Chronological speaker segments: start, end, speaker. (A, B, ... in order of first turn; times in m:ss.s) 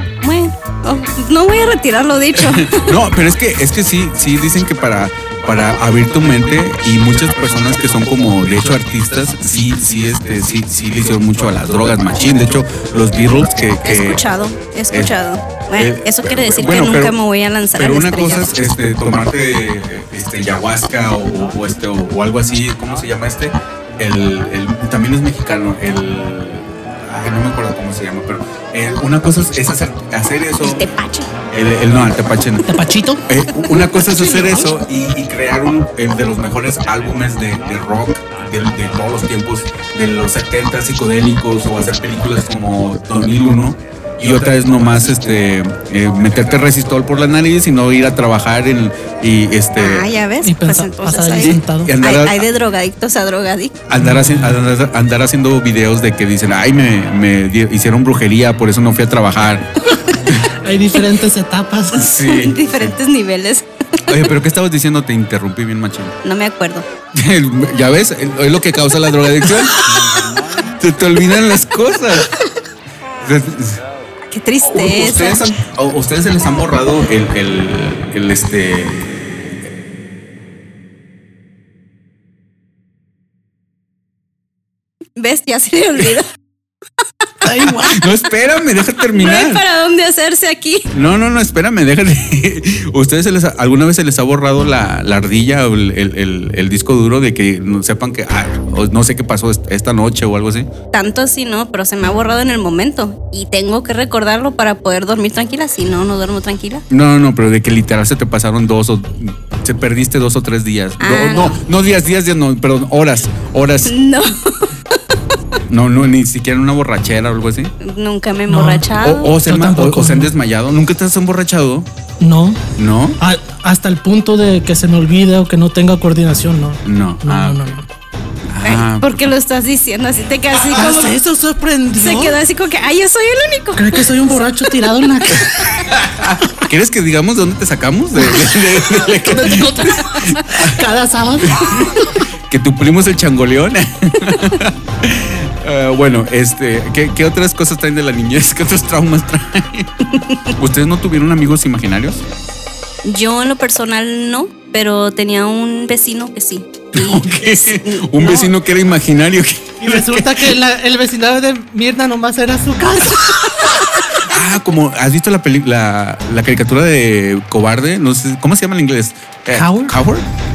0:00.2-0:03.0 A
0:02.4-0:14.2 B
0:13.8-0:18.6 A
0:15.8-0:17.2 B
0:17.8-0:30.9 B
0:30.6-0:31.3 A
0:31.5-0:32.7 B
0:32.6-0:33.2 C
0:33.3-0:50.1 B
0:34.0-0:34.7 C
0:49.8-0:53.8 A
0:50.4-0:51.9 C
0:51.4-0:52.4 B
0:53.9-0:59.7 B
0:54.0-0:54.6 C
1:00.5-1:02.1 C
1:01.9-1:03.0 B
1:02.1-1:04.0 A
1:04.1-1:06.2 B
1:06.2-1:06.8 A
1:07.1-1:09.8 B
1:10.6-1:12.3 B
1:13.2-1:13.8 B
1:14.3-1:15.5 A
1:14.6-1:19.2 B
1:25.2-1:26.3 A
1:27.4-1:28.0 C
1:27.8-1:29.6 B
1:29.1-1:30.9 A
1:30.9-1:40.7 B
1:40.9-1:46.8 A
1:46.9-1:53.9 B
1:51.0-1:51.6 A
1:53.9-1:55.0 A
1:55.7-1:57.7 B
1:57.8-1:59.4 A
1:58.5-1:58.9 C
1:59.0-2:01.9 B
1:59.4-2:00.3 C
2:02.2-2:02.6 C
2:02.8-2:03.2 B
2:03.2-2:07.9 C
2:06.8-2:07.8 B
2:08.5-2:09.2 B
2:08.6-2:11.2 A
2:10.6-2:12.4 C
2:12.0-2:14.4 A
2:13.8-2:15.9 C
2:15.9-2:20.8 B
2:18.3-2:22.2 C
2:21.4-2:22.0 B
2:22.5-2:29.9 B
2:30.6-2:32.2 B
2:33.0-2:38.5 A
2:36.9-2:40.6 B
2:39.8-2:44.1 C
2:44.2-2:50.3 B
2:49.5-2:50.0 C